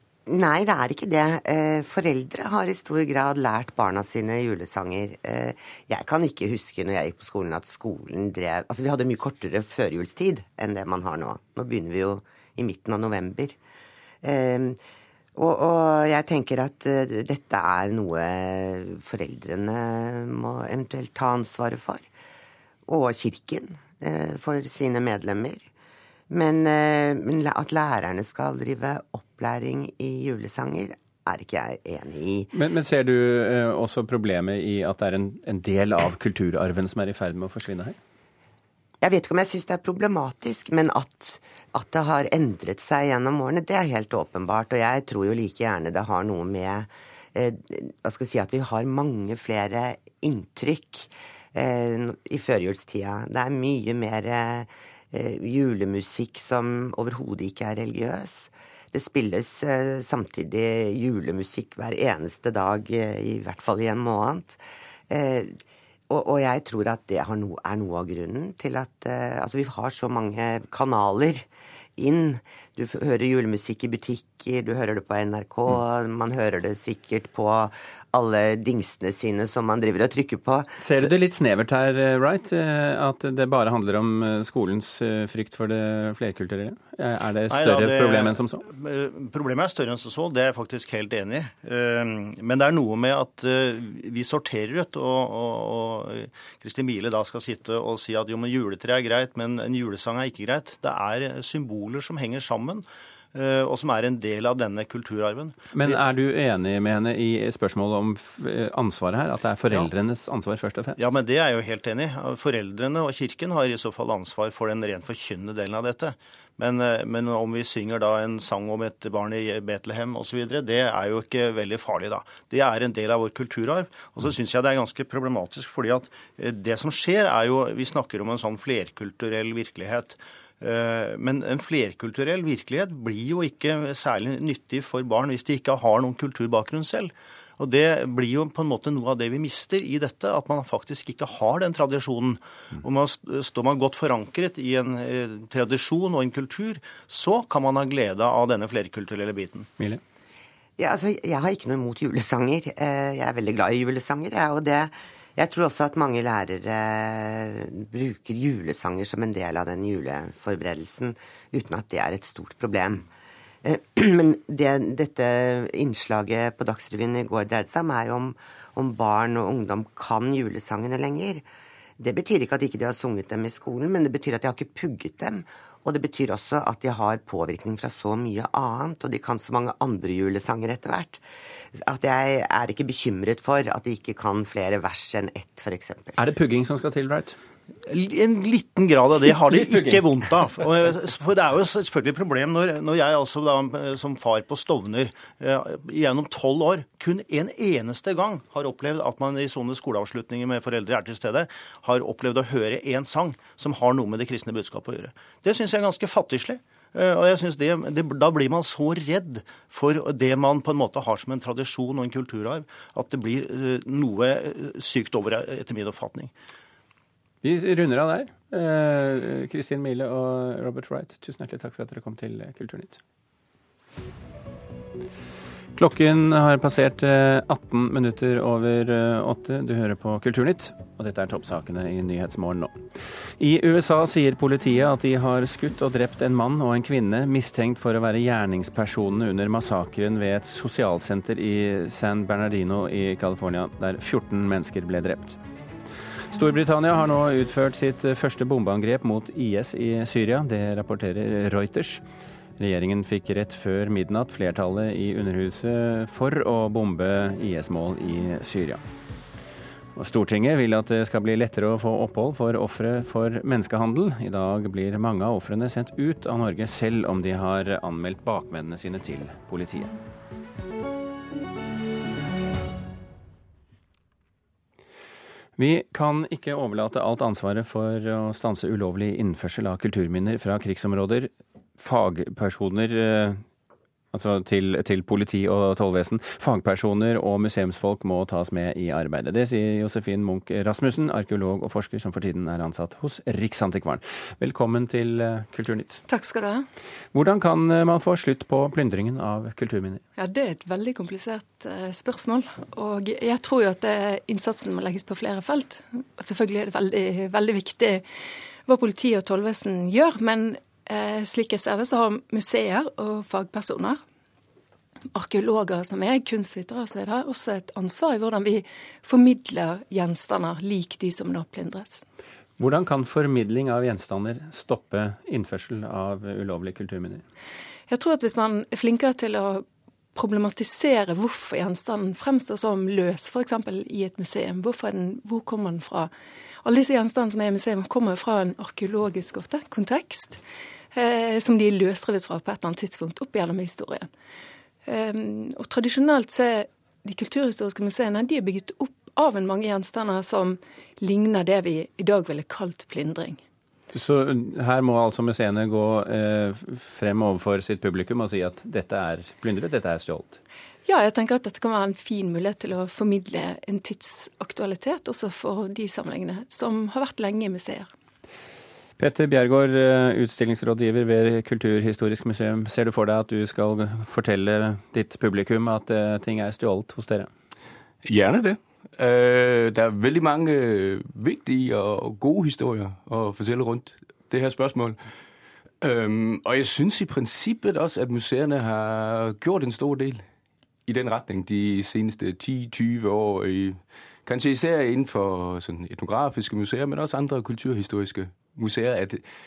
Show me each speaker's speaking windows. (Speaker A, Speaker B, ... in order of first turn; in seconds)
Speaker A: 0.3-13.6, 14.2-14.8, 15.3-22.1, 22.9-25.7, 26.3-32.5, 39.0-81.1, 150.8-163.1, 163.6-171.4, 172.0-186.2
Speaker B: 32.5-38.0, 80.8-88.6, 105.7-111.0, 186.2-187.4, 189.4-190.0, 217.4-223.0, 225.8-232.7, 233.4-245.4, 246.3-252.0, 252.6-258.8, 259.9-269.9, 275.6-283.4, 284.1-296.0, 297.1-300.0, 322.6-327.2, 353.9-360.4, 369.0-377.3
Speaker C: 87.5-106.0, 111.0-149.7, 187.8-216.3
Speaker D: 296.1-296.6, 300.2-308.0, 308.6-314.0, 315.1-322.0, 327.9-336.1, 336.6-340.4, 340.9-344.1, 344.8-353.4, 360.9-367.9
Speaker E: 378.0-385.0, 385.8-390.2, 390.9-399.2